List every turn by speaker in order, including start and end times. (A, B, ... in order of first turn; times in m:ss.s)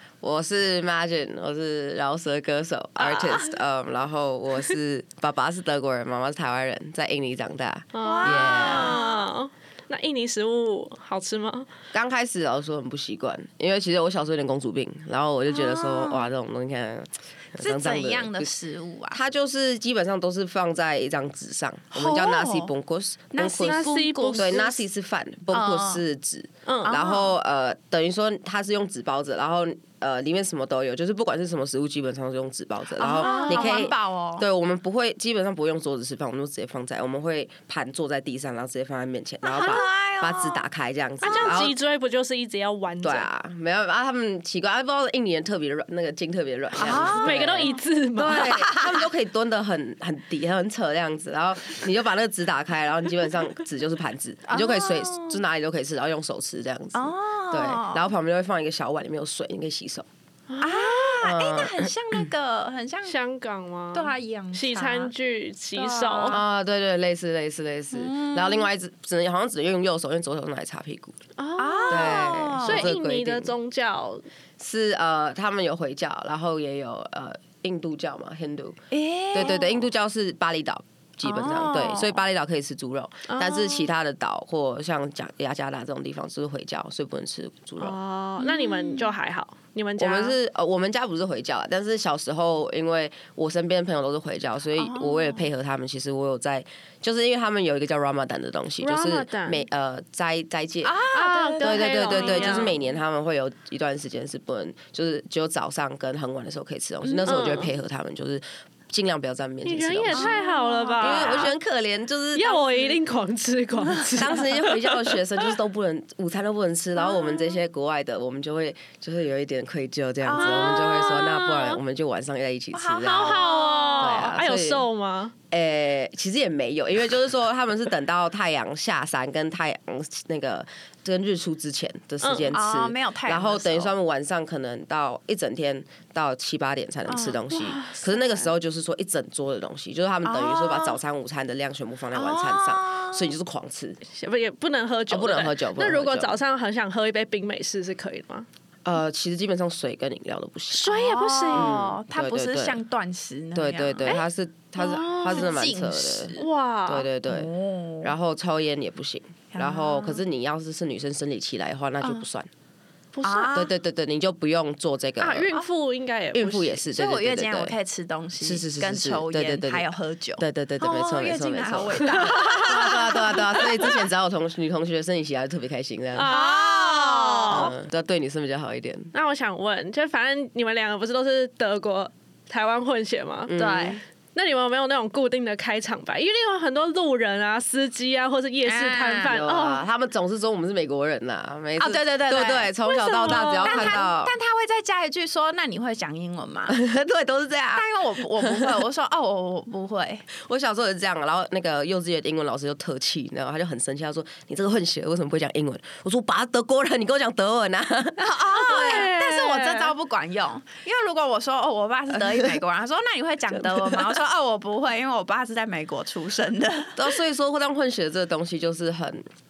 0:00.2-0:09.0 A
0:07.9-0:11.7 B
0:08.0-0:09.3 C
0:11.9-0:18.5 A
0:15.5-0:16.3 C
0:17.6-0:19.2 C
0:19.1-0:41.8 A
0:21.9-0:22.7 C
0:23.3-0:24.8 C
0:23.4-0:24.7 B
0:25.5-0:26.0 C
0:26.7-0:27.0 B
0:26.8-0:27.4 C
0:33.0-0:34.5 C
0:33.2-0:33.8 B
0:39.4-0:40.6 C
0:41.2-0:43.3 B
0:43.0-1:00.1 A
0:46.8-0:47.7 C
0:46.9-0:48.7 B
0:48.3-0:49.0 C
0:54.5-0:55.4 C
0:56.9-0:58.1 C
1:00.5-1:01.1 B
1:00.6-1:03.2 C
1:01.2-1:02.2 A
1:03.1-1:06.4 B
1:03.9-1:05.1 C
1:05.8-1:06.4 C
1:06.3-1:11.2 A
1:07.9-1:08.7 C
1:11.4-1:14.2 B
1:11.6-1:12.9 C
1:11.9-1:13.6 A
1:14.6-1:18.8 A
1:18.9-1:19.8 C
1:19.3-1:28.0 A
1:21.2-1:22.2 C
1:23.3-1:23.9 B
1:27.8-1:30.4 B
1:28.4-1:29.1 C
1:30.0-1:41.0 A
1:34.7-1:35.5 C
1:38.8-1:39.7 B
1:40.8-1:42.8 C
1:41.1-1:42.8 B
1:41.6-1:50.4 A
1:47.0-1:47.4 C
1:47.2-1:47.7 B
1:49.6-1:51.6 B
1:50.1-1:51.5 C
1:51.0-1:53.0 A
1:52.4-1:55.2 B
1:54.2-2:03.5 A
2:00.2-2:00.9 C
2:00.4-2:01.8 B
2:02.7-2:04.4 C
2:03.0-2:05.3 B
2:04.0-2:04.9 A
2:05.5-2:24.0 A
2:12.2-2:12.6 B
2:12.5-2:13.9 C
2:17.1-2:17.9 C
2:17.5-2:18.1 B
2:20.2-2:21.0 C
2:22.1-2:23.4 C
2:24.1-2:28.5 B
2:25.1-2:26.4 A
2:28.8-2:32.8 A
2:30.7-2:34.2 C
2:31.0-2:31.8 B
2:33.6-2:36.4 A
2:34.8-2:36.5 C
2:35.2-2:35.5 B
2:36.4-2:37.1 B
2:36.9-2:37.5 A
2:37.3-2:38.1 C
2:38.0-2:42.5 A
2:39.5-2:40.2 C
2:43.1-2:43.5 B
2:43.2-2:43.7 C
2:43.5-2:45.5 A
2:45.2-2:46.8 B
2:46.3-2:47.7 A
2:46.9-2:54.0 C
2:48.4-2:56.4 A
2:52.1-2:52.7 B
2:56.2-2:57.7 B
2:56.3-2:57.7 C
2:57.5-2:59.1 A
2:59.1-3:03.6 B
3:03.5-3:04.0 A
3:03.5-3:04.0 C
3:04.4-3:09.8 B
3:08.6-3:09.4 C
3:09.2-3:14.3 A
3:11.8-3:16.8 C
3:13.2-3:14.0 B
3:16.7-3:17.9 A
3:17.7-3:20.2 C
3:18.4-3:18.8 A
3:20.3-3:29.1 A
3:28.2-3:37.1 C
3:28.6-3:29.9 B
3:32.1-3:32.6 A
3:33.5-3:34.2 A
3:37.0-3:39.2 A